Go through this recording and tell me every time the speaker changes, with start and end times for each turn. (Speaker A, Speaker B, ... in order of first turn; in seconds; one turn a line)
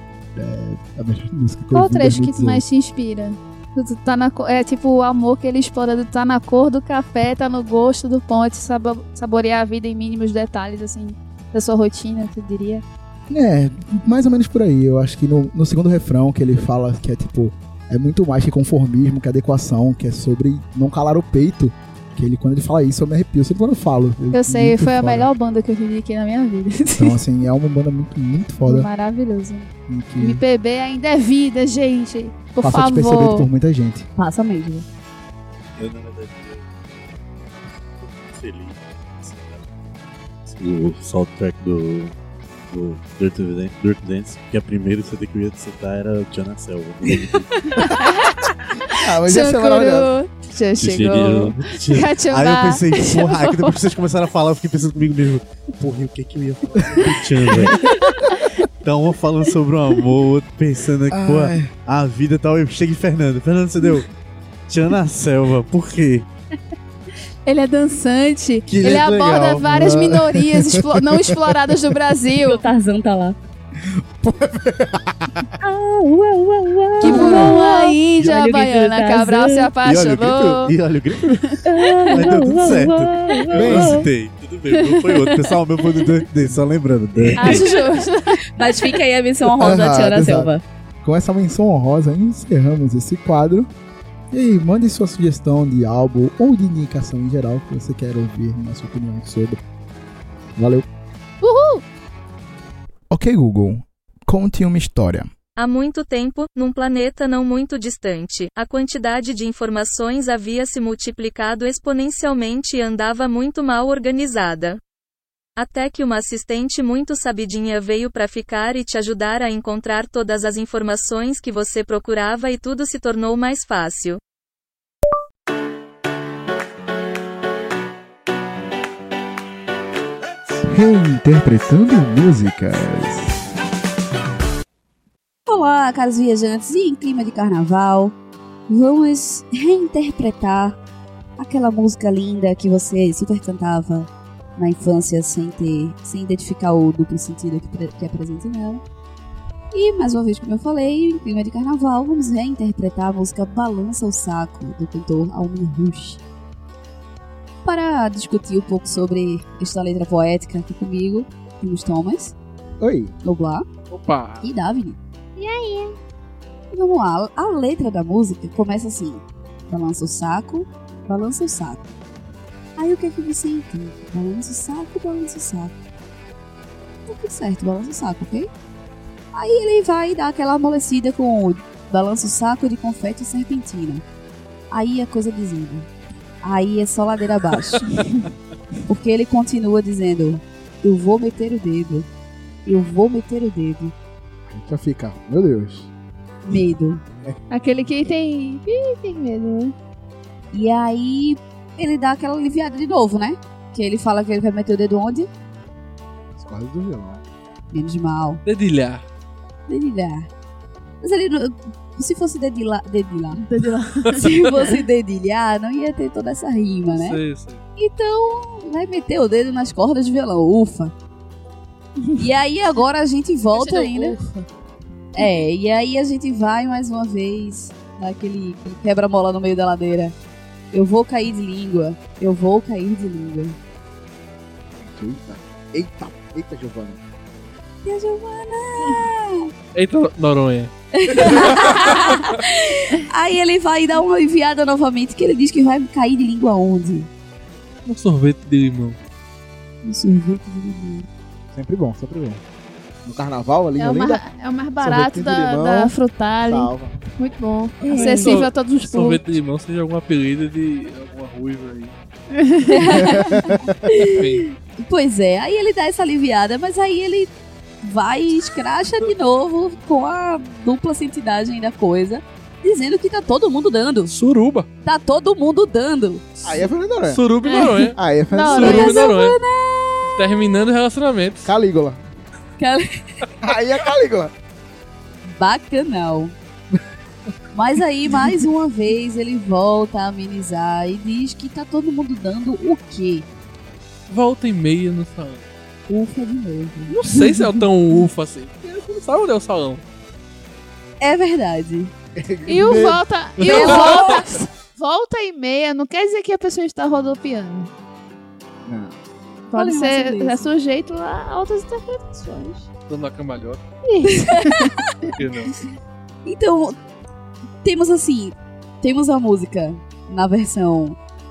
Speaker A: 0.3-2.6
Speaker B: 1.7-12.8
Speaker A: 13.3-25.3
Speaker B: 24.3-27.2
Speaker A: 27.0-28.9
Speaker B: 28.6-33.5
Speaker A: 29.9-30.4
Speaker A: 32.6-34.1
Speaker C: 34.2-34.9
Speaker D: 35.8-36.9
Speaker D: 38.0-39.7
Speaker D: 40.5-42.1
Speaker D: 42.7-47.9
Speaker B: 47.6-53.8
Speaker A: 48.9-50.1
Speaker D: 50.8-57.9
Speaker A: 56.9-58.3
Speaker B: 57.8-58.4
Speaker D: 58.8-64.1
Speaker A: 61.1-61.7
Speaker D: 64.7-66.3
Speaker B: 67.5-72.6
Speaker D: 68.7-69.9
Speaker A: 69.7-71.8
Speaker C: 72.4-73.4
Speaker A: 74.2-75.1
Speaker C: 75.6-79.7
Speaker A: 77.0-77.6
Speaker B: 77.0-81.6
Speaker D: 79.8-87.8
Speaker C: 81.6-84.1
Speaker A: 83.5-84.0
Speaker B: 84.7-85.9
Speaker B: 87.4-89.0
Speaker C: 88.5-90.6
Speaker A: 89.6-90.5
Speaker A: 91.0-93.7
Speaker A: 94.3-99.6
Speaker A: 100.6-100.9
Speaker B: 101.4-101.8
Speaker A: 103.1-105.3
Speaker E: 105.6-114.8
Speaker E: 115.6-124.2
Speaker A: 130.6-133.4
Speaker C: 135.5-138.2
Speaker C: 138.7-140.8
Speaker C: 141.4-148.8
Speaker C: 149.7-156.2
Speaker C: 157.7-162.3
Speaker A: 162.8-163.2
Speaker C: 163.2-163.7
Speaker F: 163.9-164.4
Speaker C: 164.4-165.0
Speaker B: 165.4-166.0
Speaker C: 166.7-171.9
Speaker C: 172.8-175.7
Speaker C: 177.1-178.5
Speaker C: 179.3-184.0
Speaker C: 184.7-185.9
Speaker C: 186.4-188.0
Speaker C: 188.9-192.1
Speaker C: 192.7-193.9
Speaker A: 194.5-195.9
Speaker C: 196.5-197.0
Speaker B: 197.5-199.8
Speaker C: 200.5-205.3
Speaker A: 206.3-207.2
Speaker C: 207.7-208.4
Speaker F: 208.4-209.1
Speaker C: 209.7-210.3
Speaker C: 211.0-213.4
Speaker B: 213.4-214.7
Speaker C: 214.1-217.2
Speaker F: 216.9-217.6
Speaker C: 217.8-220.9
Speaker C: 222.2-224.2
Speaker B: 223.5-224.5
Speaker C: 225.1-230.2
Speaker C: 230.7-233.6
Speaker A: 234.8-237.0
Speaker C: 237.8-239.5
Speaker F: 239.7-242.3
Speaker C: 240.9-247.1
Speaker F: 247.9-249.0
Speaker C: 249.8-251.1
Speaker A: 251.5-252.4
Speaker A: 253.1-254.2
Speaker B: 253.8-259.2
Speaker A: 254.8-257.0
Speaker C: 257.8-258.4
Speaker F: 257.9-261.9
Speaker B: 262.4-263.2
Speaker C: 262.7-274.1
Speaker A: 262.9-263.8
Speaker F: 264.0-264.5
Speaker F: 274.1-274.7
Speaker C: 274.8-276.4
Speaker A: 276.4-277.2
Speaker F: 277.1-278.0
Speaker B: 277.4-279.1
Speaker A: 277.9-279.0
Speaker F: 278.5-279.4
Speaker C: 278.5-280.2
Speaker F: 280.2-281.5
Speaker A: 281.4-282.0
Speaker C: 282.6-283.1
Speaker A: 283.4-284.3
Speaker C: 285.2-286.4
Speaker C: 287.5-293.3
Speaker F: 294.1-295.4
Speaker C: 295.9-297.0
Speaker F: 296.9-299.8
Speaker C: 301.0-301.9
Speaker A: 302.2-303.0
Speaker B: 302.5-307.7
Speaker F: 303.4-304.2
Speaker C: 303.5-304.3
Speaker A: 308.7-309.0
Speaker B: 309.5-312.7
Speaker C: 309.6-310.5
Speaker F: 312.9-313.6
Speaker B: 313.9-315.1
Speaker C: 314.1-314.9
Speaker F: 315.1-315.6
Speaker C: 316.2-316.8
Speaker C: 317.6-321.0